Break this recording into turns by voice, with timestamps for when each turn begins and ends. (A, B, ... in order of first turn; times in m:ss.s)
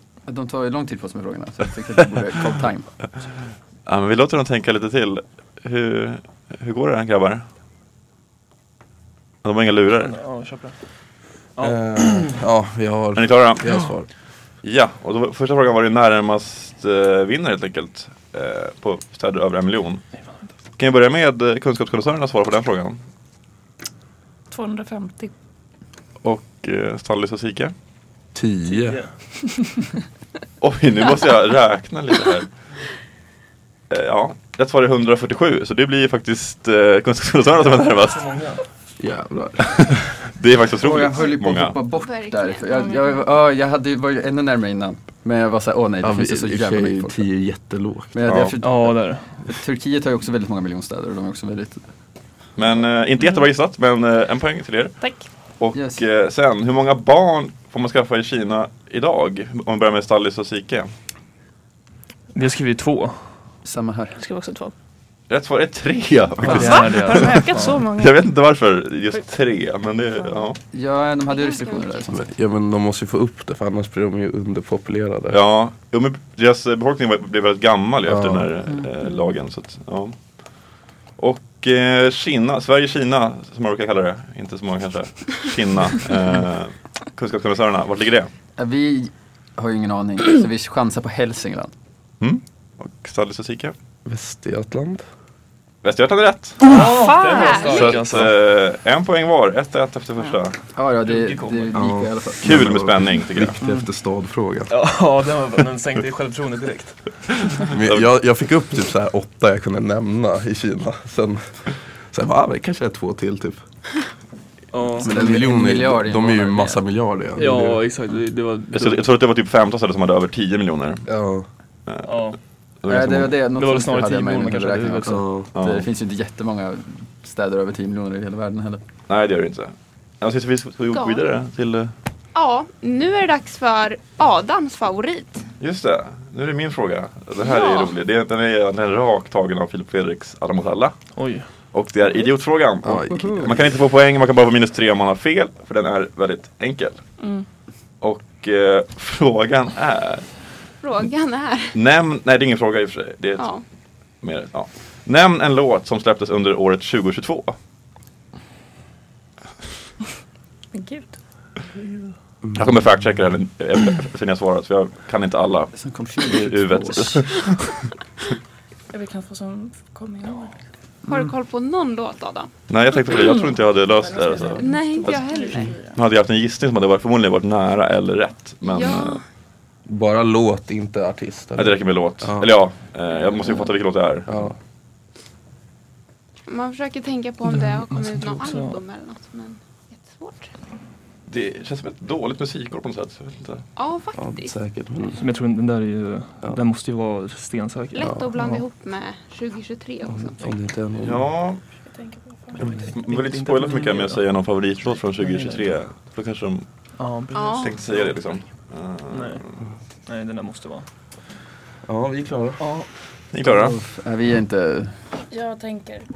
0:00.2-0:02.9 A
0:03.8-0:07.4 B
0:09.4-0:10.2 B
0:10.0-0:12.4 C
0:11.6-0:14.1 D
0:13.2-0:14.0 B
0:14.6-0:20.0 B
0:20.8-0:23.0 B
0:24.5-0:25.3 E
0:26.2-0:27.7 B
0:28.3-0:29.0 D
0:28.6-0:29.2 C
0:30.6-0:32.5 B
0:33.9-0:38.5 B
0:37.6-0:38.6 C
0:39.0-0:40.1 D
0:40.3-0:41.8 B
0:40.8-0:47.2 A
0:41.9-0:42.6 F
0:42.6-0:43.2 E
0:46.0-0:48.5 D
0:48.1-0:51.8 A
0:48.3-0:48.5 B
0:48.6-0:49.3 C
0:52.6-1:00.9 B
0:55.0-0:55.3 E
0:55.7-0:56.0 A
1:02.3-1:03.2 C
1:03.6-1:04.2 A
1:04.2-1:04.7 E
1:05.3-1:10.6 B
1:06.4-1:07.8 C
1:06.5-1:08.2 E
1:10.7-1:12.3 A
1:11.3-1:12.0 F
1:12.1-1:15.4 D
1:15.3-1:20.4 B
1:18.0-1:18.5 D
1:21.2-1:28.3 B
1:28.6-1:31.7 A
1:32.2-1:33.7 B
1:34.0-1:35.0 D
1:35.8-1:36.8 B
1:36.6-1:38.3 C
1:36.8-1:37.8 E
1:37.1-1:38.1 F
1:37.6-1:40.6 B
1:40.7-1:42.4 A
1:41.0-1:41.9 C
1:41.7-1:44.7 D
1:42.4-1:43.6 B
1:43.6-1:43.9 A
1:44.7-1:47.4 C
1:47.5-1:48.1 B
1:47.7-1:53.6 D
1:54.7-1:55.1 C
1:55.0-1:57.8 D
1:55.0-1:56.8 A
1:57.4-1:59.0 C
1:58.7-2:01.0 B
2:01.1-2:01.4 D
2:01.9-2:02.3 B
2:02.0-2:02.4 C
2:02.8-2:03.4 B
2:02.9-2:08.8 A
2:03.5-2:05.2 C
2:05.0-2:05.5 D
2:05.5-2:05.8 B
2:09.1-2:11.9 B
2:10.9-2:11.2 F
2:12.3-2:15.4 F
2:15.6-2:27.1 B
2:17.4-2:17.9 F
2:21.1-2:21.5 C
2:22.8-2:23.4 D
2:23.1-2:23.6 A
2:27.2-2:27.4 E
2:28.0-2:30.6 B
2:30.8-2:31.8 F
2:31.7-2:33.6 B
2:33.4-2:33.6 F
2:34.1-2:37.5 B
2:40.7-2:41.2 E
2:42.5-2:47.8 B
2:45.7-2:47.4 A
2:48.9-2:50.6 E
2:51.0-2:51.3 A
2:51.1-2:52.5 F
2:52.7-2:55.3 B
2:53.1-2:56.0 E
2:54.6-2:55.8 F
2:55.8-2:59.2 B
2:58.6-2:59.2 F
2:59.8-3:02.5 D
3:01.6-3:04.5 B
3:04.2-3:04.5 D
3:06.5-3:10.5 F
3:07.4-3:08.8 C
3:11.3-3:13.6 B
3:13.8-3:14.5 F
3:14.2-3:15.3 D
3:15.2-3:18.1 C
3:17.9-3:20.5 F
3:18.0-3:18.6 D
3:20.1-3:21.2 D
3:21.0-3:21.6 B
3:21.9-3:22.7 E
3:22.6-3:26.6 B
3:22.6-3:24.2 C
3:25.2-3:25.6 C
3:27.0-3:28.1 C
3:27.3-3:27.7 F
3:27.6-3:29.6 B
3:29.1-3:29.4 C
3:30.0-3:30.9 C
3:31.8-3:32.7 D
3:32.6-3:32.9 C
3:33.3-3:33.8 B
3:33.4-3:35.0 A
3:35.3-3:36.0 E